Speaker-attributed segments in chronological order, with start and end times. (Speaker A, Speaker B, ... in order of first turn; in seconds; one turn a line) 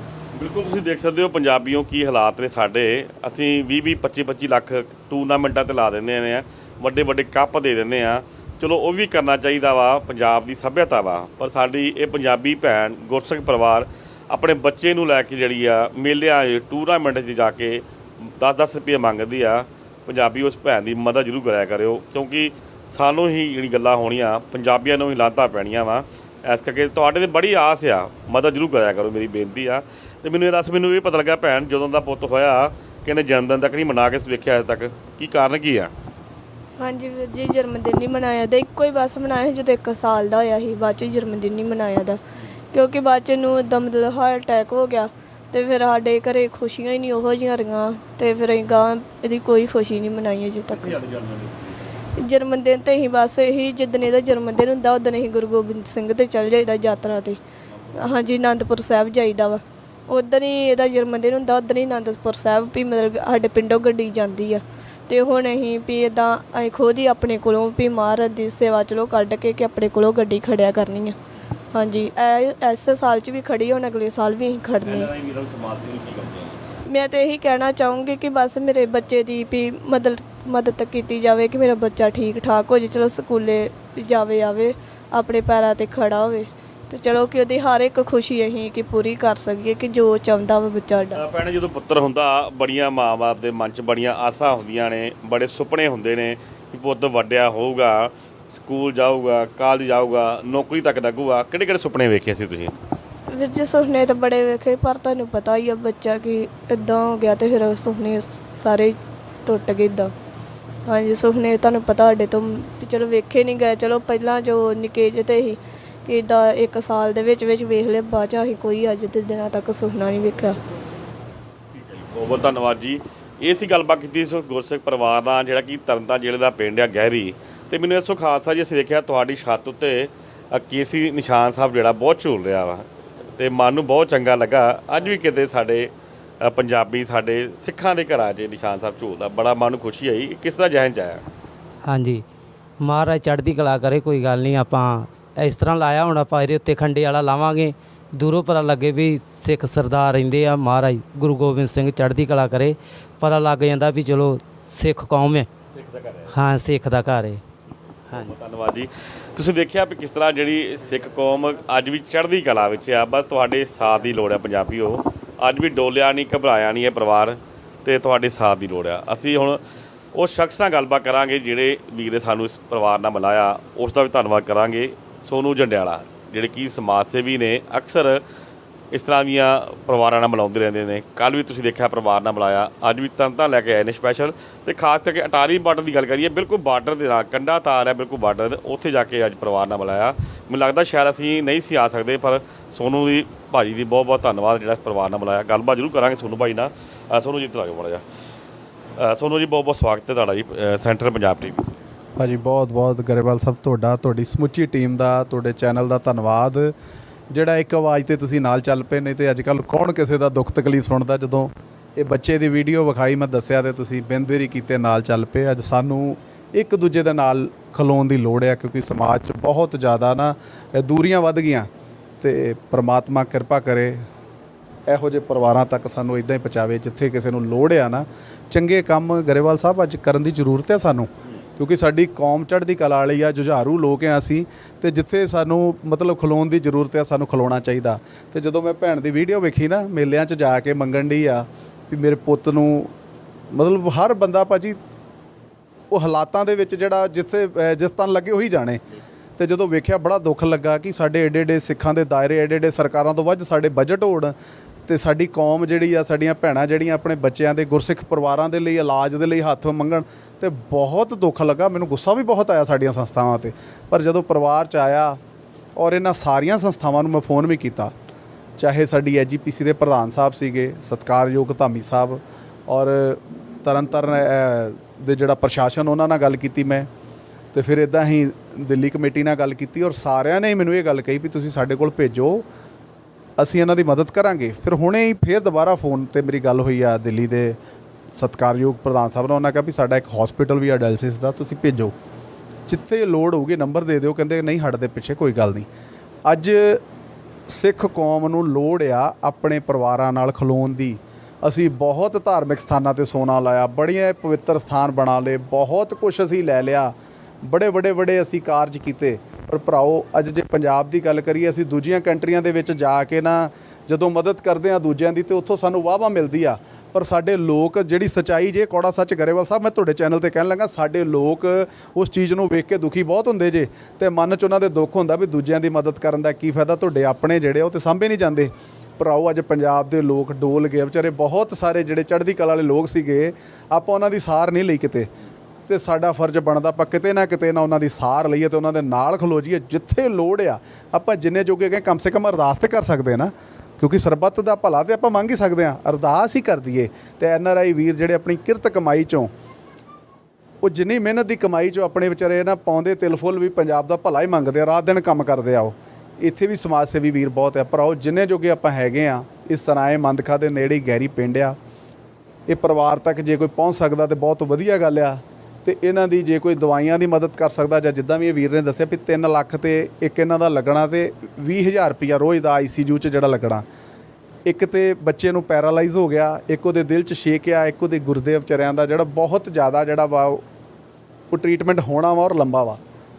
Speaker A: 0.3-35.9
Speaker B: 36.8-42.2
Speaker B: 42.7-51.0
Speaker A: 50.7-52.0
Speaker B: 52.2-57.4
Speaker A: 57.7-58.2
Speaker B: 58.0-71.2
Speaker B: 71.7-75.1
Speaker A: 74.8-76.6
Speaker B: 76.9-91.2
Speaker A: 91.1-102.7
Speaker B: 103.3-110.1
Speaker B: 110.9-120.6
Speaker A: 121.8-135.9
Speaker A: 136.4-141.2
Speaker C: 141.8-142.2
Speaker C: 142.8-155.5
Speaker A: 155.7-156.3
Speaker C: 156.3-157.4
Speaker A: 158.1-169.6
Speaker A: 170.1-178.2
Speaker A: 178.9-198.0
Speaker A: 199.0-201.7
Speaker D: 202.2-206.7
Speaker D: 207.3-221.7
Speaker D: 222.2-224.0
Speaker D: 224.9-242.9
Speaker D: 243.5-244.8
Speaker D: 245.9-248.8
Speaker D: 249.4-254.3
Speaker D: 254.9-265.2
Speaker D: 265.8-267.9
Speaker D: 268.6-276.9
Speaker D: 277.5-282.4
Speaker D: 283.4-287.5
Speaker D: 288.1-291.9
Speaker D: 292.7-295.7
Speaker D: 296.2-296.8
Speaker D: 297.5-335.1
Speaker D: 335.7-349.3
Speaker D: 350.6-361.6
Speaker D: 362.5-373.6
Speaker D: 374.4-380.4
Speaker D: 381.3-382.8